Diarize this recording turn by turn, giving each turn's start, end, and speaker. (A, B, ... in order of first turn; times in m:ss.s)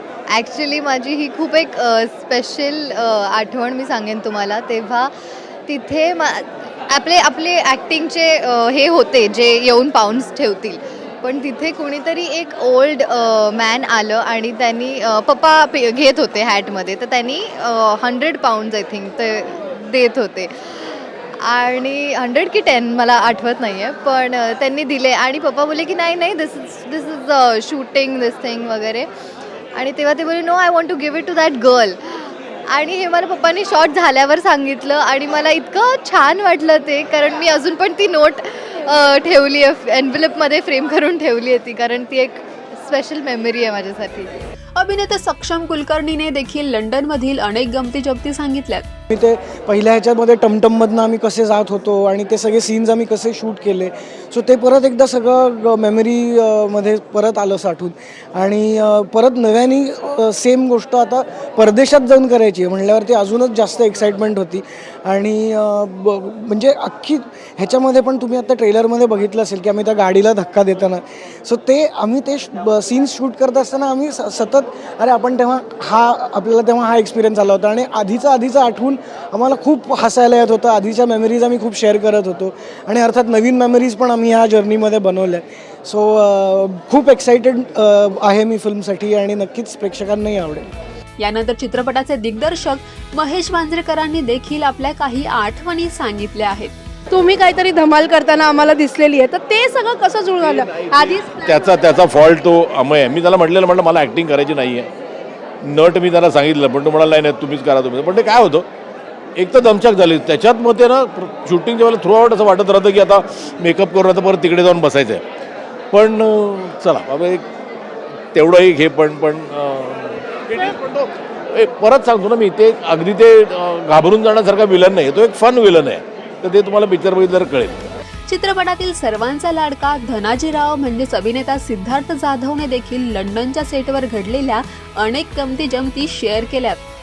0:00.3-0:05.1 A
0:05.7-0:29.1 A
0:29.7-0:44.3 A
0:44.8-0:48.8 B
0:49.1-1:30.7 C
1:31.2-1:36.7 B
1:37.1-1:41.7 D
1:40.4-1:44.9 E
1:45.6-1:48.6 E
1:49.4-1:55.2 E
1:55.9-1:57.4 E
1:58.3-2:07.9 E
2:08.3-2:16.8 B